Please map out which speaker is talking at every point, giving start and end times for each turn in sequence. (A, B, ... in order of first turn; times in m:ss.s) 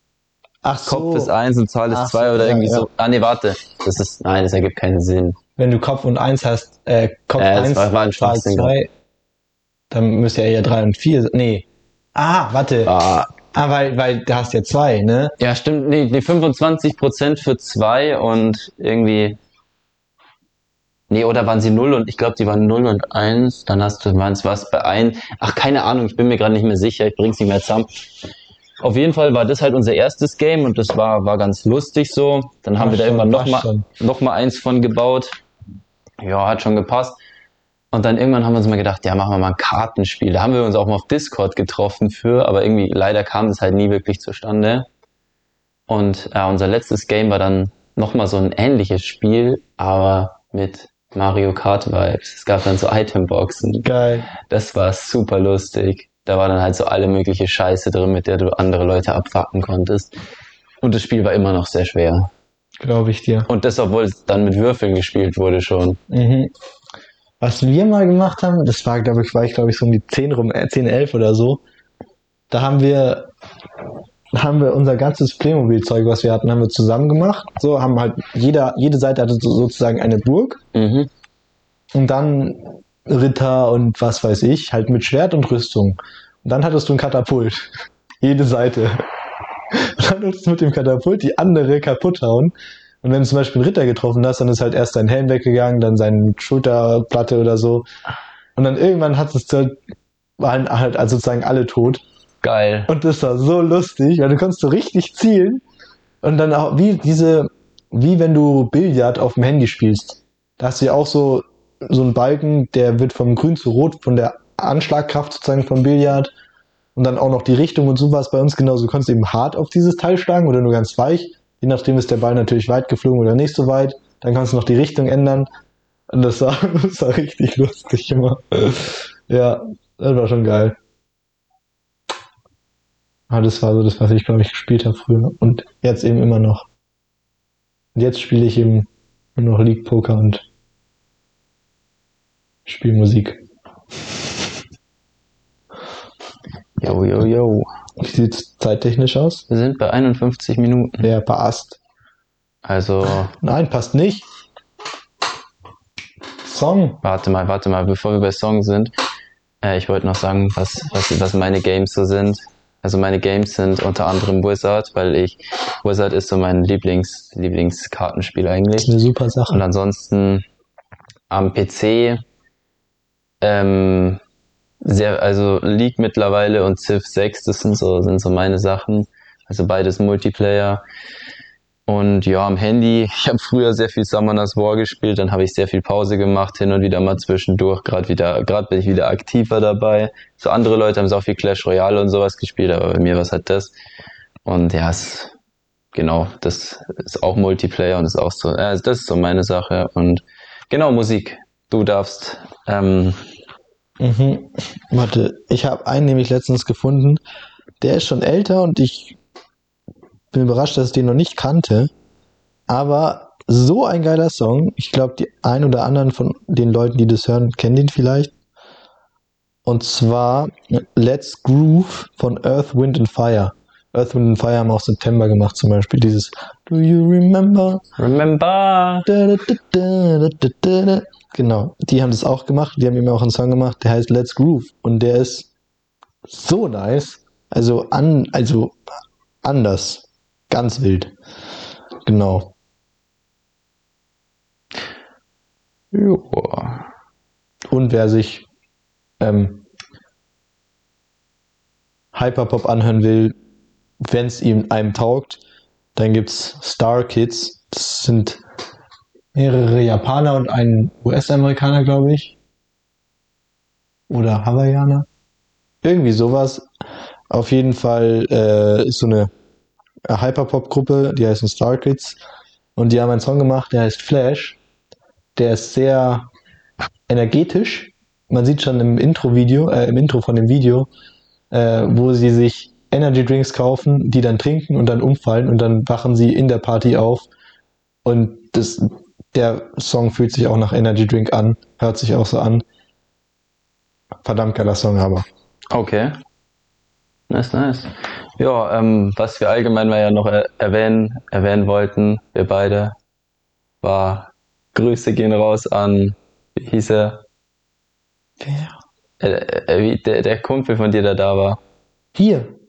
0:00.6-0:01.3 A
0:00.8-0:05.4 B
0:01.9-0:02.9 A
0:05.6-0:08.9 A
0:07.4-0:08.7 B
0:09.9-0:15.4 A
0:12.8-0:13.3 B
0:15.4-0:19.4 B
0:21.1-0:27.9 B
0:28.8-0:35.4 B
0:32.8-0:33.8 A
0:36.2-0:37.2 B
0:37.9-0:44.9 B
0:45.9-0:53.9 B
0:53.8-0:54.3 A
0:54.5-1:00.1 B
1:00.8-1:02.3 B
1:02.8-1:03.5 A
1:03.5-1:06.0 B
1:06.1-1:06.5 A
1:07.4-1:11.6 A
1:12.5-1:13.3 A
1:14.3-1:20.6 A
1:20.7-1:21.1 B
1:21.9-1:29.1 A
1:29.7-1:37.9 A
1:38.6-1:39.8 A
1:40.4-1:42.0 A
1:42.4-1:42.9 B
1:42.9-1:45.6 A
1:46.2-1:56.3 A
1:56.9-2:05.5 A
2:06.1-2:10.8 A
2:13.3-2:16.7 A
2:17.9-2:20.4 A
2:22.6-2:23.4 A
2:26.8-2:27.7 B
2:28.0-2:29.4 A
2:29.5-2:31.1 B
2:31.0-2:31.8 A
2:32.6-2:33.3 B
2:33.3-2:34.3 A
2:36.4-2:37.0 A
2:37.0-2:38.9 B
2:39.6-2:48.9 B
2:48.8-2:49.6 A
2:49.5-2:50.4 B
2:51.3-2:52.2 B
2:53.4-2:54.2 B
2:54.8-3:00.8 B
3:01.9-3:13.7 B
3:14.4-3:15.3 B
3:15.9-3:23.2 B
3:24.0-3:27.2 A
3:27.8-3:29.2 A
3:30.3-3:31.9 A
3:32.7-3:38.3 A
3:39.6-3:47.8 A
3:48.0-3:49.1 B
3:49.0-3:55.5 A
3:56.3-3:58.8 A
3:59.4-4:01.1 A
4:02.0-4:02.5 A
4:05.9-4:06.9 B
4:07.7-4:08.4 A
4:09.2-4:09.6 A
4:12.1-4:13.3 A
4:14.0-4:15.4 A
4:16.0-4:18.4 A
4:19.3-4:22.4 A
4:24.1-4:25.1 A
4:25.8-4:26.7 A
4:27.3-4:29.3 A
4:30.1-4:32.2 A
4:32.8-4:34.6 A
4:35.4-4:36.3 A
4:37.1-4:40.9 A
4:41.5-4:47.3 A
4:48.0-4:52.6 A
4:54.2-4:55.2 A
4:55.7-4:56.2 B
4:57.3-5:03.0 B
5:03.8-5:07.2 B
5:08.4-5:08.8 A
5:09.2-5:11.6 B
5:12.1-5:12.5 A